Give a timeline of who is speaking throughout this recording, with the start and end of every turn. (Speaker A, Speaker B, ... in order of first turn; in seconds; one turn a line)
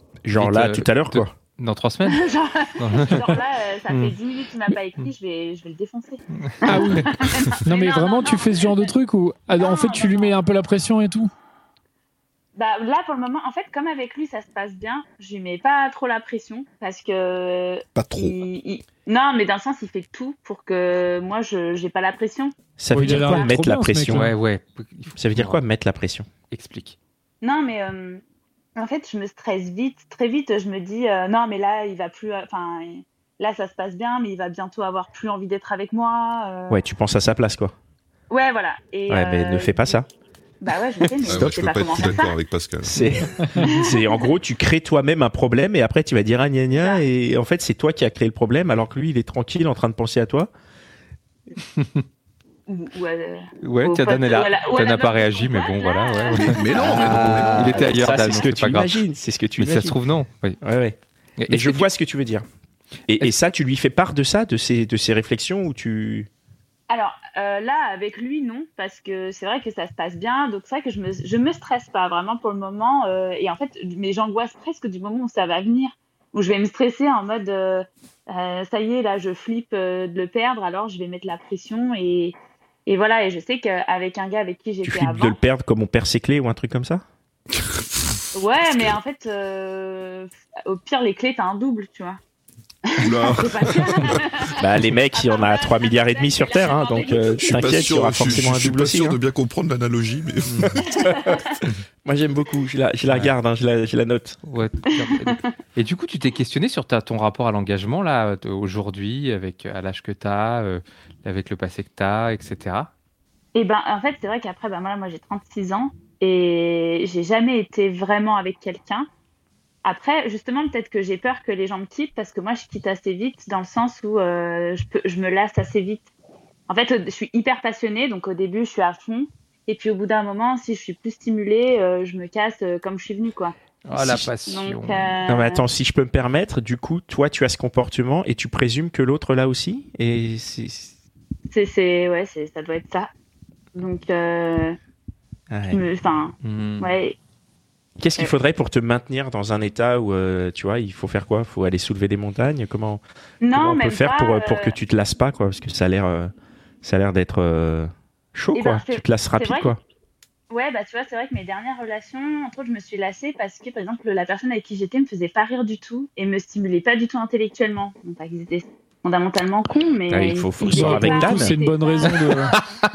Speaker A: 0.2-1.3
Speaker B: 0.3-2.2
Speaker C: 2.0-8.9
Speaker B: 2.8-4.1
Speaker B: 6.4-7.2
Speaker D: 6.7-7.1
Speaker D: 7.6-11.3
Speaker C: 9.6-10.3
Speaker C: 12.5-23.5
Speaker E: 17.9-18.4
Speaker A: 22.8-24.3
Speaker D: 22.9-24.3
Speaker B: 24.1-25.6
Speaker A: 25.1-26.3
Speaker B: 26.5-27.0
Speaker C: 27.4-28.2
Speaker C: 28.8-36.8
Speaker A: 36.7-37.7
Speaker C: 38.3-40.0
Speaker A: 39.1-40.1
Speaker C: 40.6-42.3
Speaker A: 41.2-41.5
Speaker E: 41.2-43.3
Speaker A: 42.8-50.5
Speaker C: 43.6-44.3
Speaker C: 46.8-47.0
Speaker B: 51.8-52.0
Speaker C: 52.7-57.0
Speaker B: 53.6-59.0
Speaker E: 56.4-57.9
Speaker A: 56.8-60.0
Speaker B: 59.6-60.6
Speaker A: 60.6-61.0
Speaker B: 61.4-61.9
Speaker A: 61.5-62.5
Speaker A: 63.1-66.3
Speaker C: 66.9-85.4
Speaker A: 84.8-87.0
Speaker E: 87.5-88.9
Speaker C: 88.3-92.2
Speaker C: 92.8-97.9
Speaker E: 93.0-94.3
Speaker A: 94.6-99.2
Speaker E: 97.4-101.2
Speaker B: 100.5-100.7
Speaker C: 100.9-101.5
Speaker A: 102.0-104.4
Speaker B: 103.1-103.3
Speaker B: 104.5-112.9
Speaker C: 105.0-105.4
Speaker C: 113.5-119.1
Speaker C: 119.8-126.1
Speaker C: 126.7-135.6
Speaker B: 133.8-135.1
Speaker A: 135.3-140.9
Speaker C: 141.5-143.1
Speaker C: 143.7-144.8
Speaker A: 145.5-145.8
Speaker C: 145.7-147.2
Speaker B: 146.4-146.9
Speaker A: 148.0-153.0
Speaker C: 153.4-154.8
Speaker A: 153.5-156.3
Speaker A: 156.8-159.8
Speaker C: 158.5-159.7
Speaker C: 160.5-172.7
Speaker A: 170.1-171.5
Speaker D: 170.7-172.6